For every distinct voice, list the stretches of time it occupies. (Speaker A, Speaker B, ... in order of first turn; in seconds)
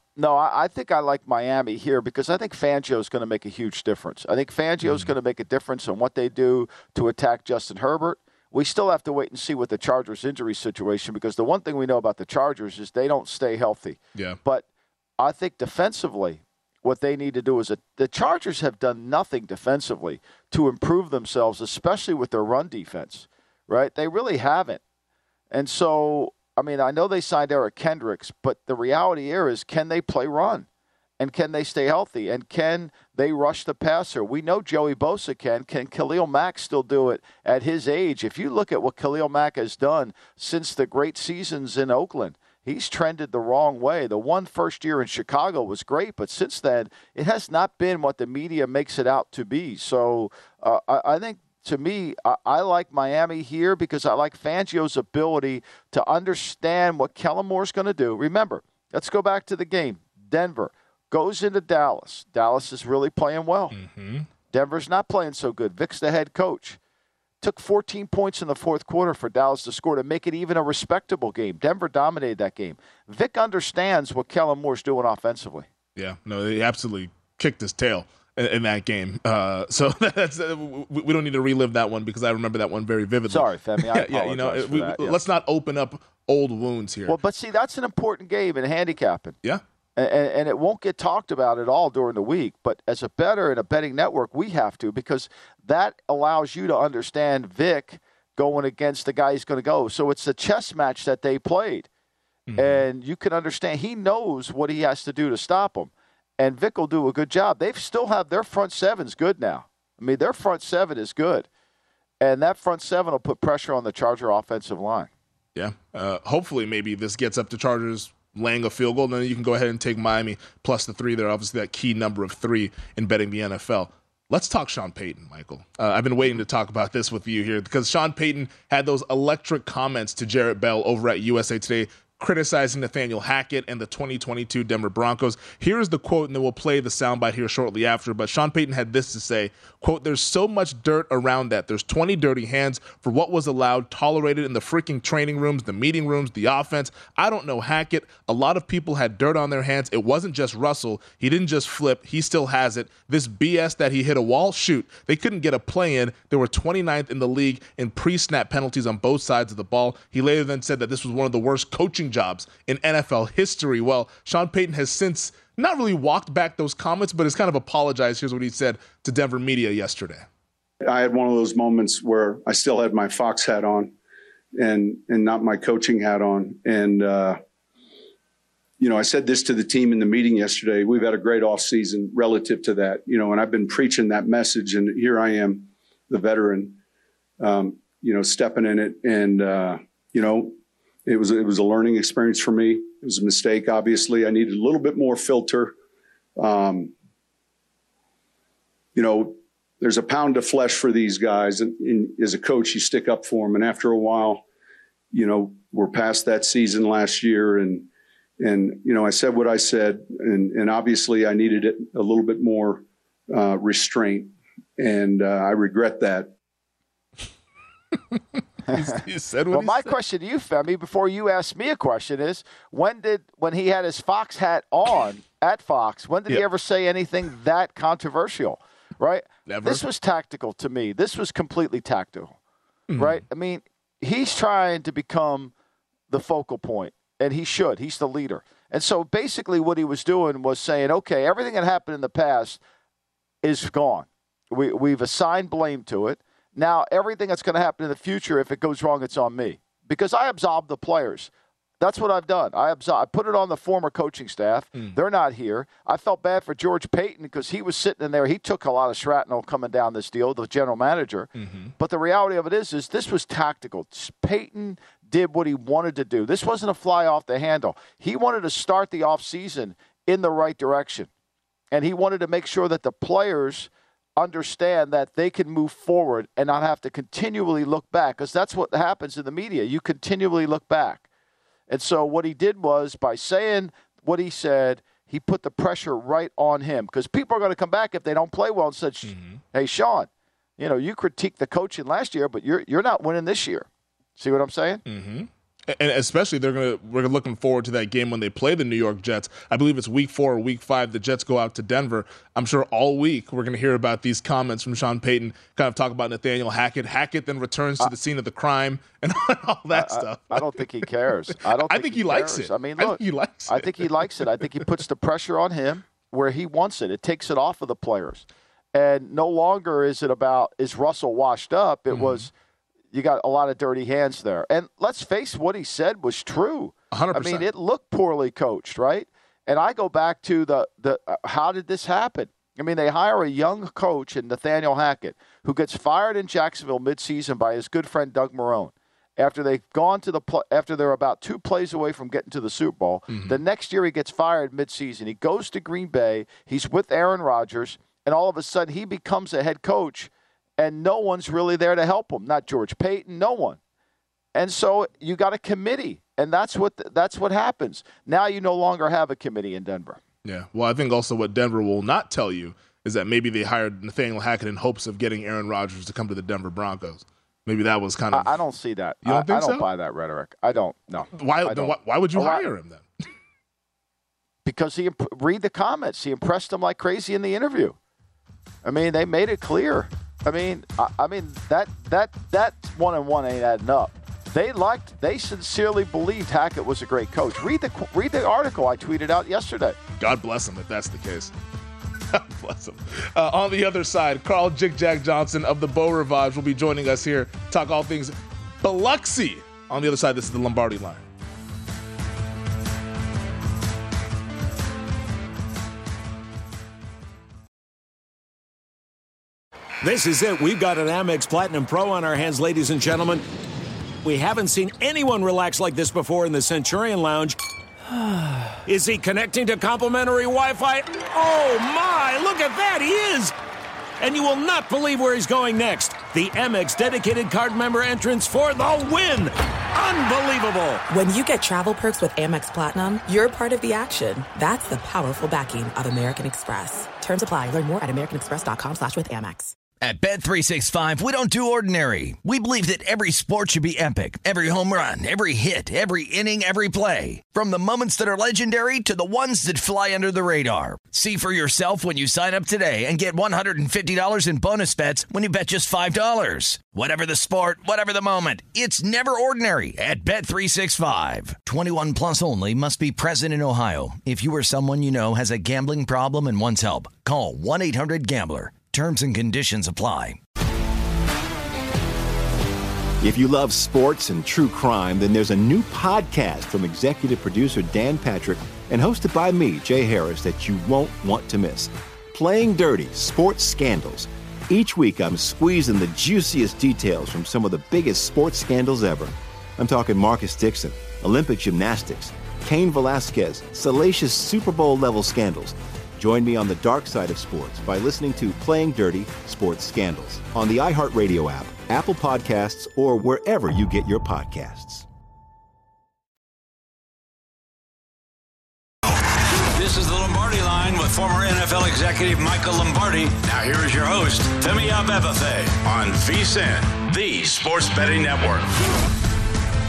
Speaker A: 0.2-14.7, 15.2-24.8, 25.5-30.7, 31.2-63.8, 64.5-66.8, 67.4-75.7, 83.3-85.2, 87.1-89.4, 90.0-101.9, 102.6-111.5, 112.2-115.1, 218.7-232.4, 233.0-235.5, 236.1-242.6, 243.4-271.1, 271.7-281.1, 281.7-294.8, 309.7-322.3, 322.9-353.6, 354.4-360.0, 368.1-372.5, 374.4-377.8, 378.6-389.8
Speaker B: 4.8-5.1, 63.7-64.3, 76.0-87.2, 102.5-102.8, 115.5-170.3, 218.7-219.9, 229.5-229.8, 232.9-233.2, 261.4-261.7, 289.1-289.4, 294.9-314.6, 321.9-322.3, 326.9-327.5, 343.1-343.4, 360.2-368.4, 369.0-369.7, 371.1-372.9, 390.0-391.3, 392.1-401.1
Speaker C: 170.8-173.9, 174.6-177.4, 178.8-186.8, 187.4-195.8, 196.4-196.9, 198.9-204.4, 205.1-207.9, 208.4-216.3
Speaker D: 409.8-413.2, 414.0-417.4, 418.6-423.4, 424.0-430.8
Speaker E: 430.9-439.6
Speaker F: 439.8-470.2
Speaker G: 473.0-504.9
Speaker H: 509.5-518.5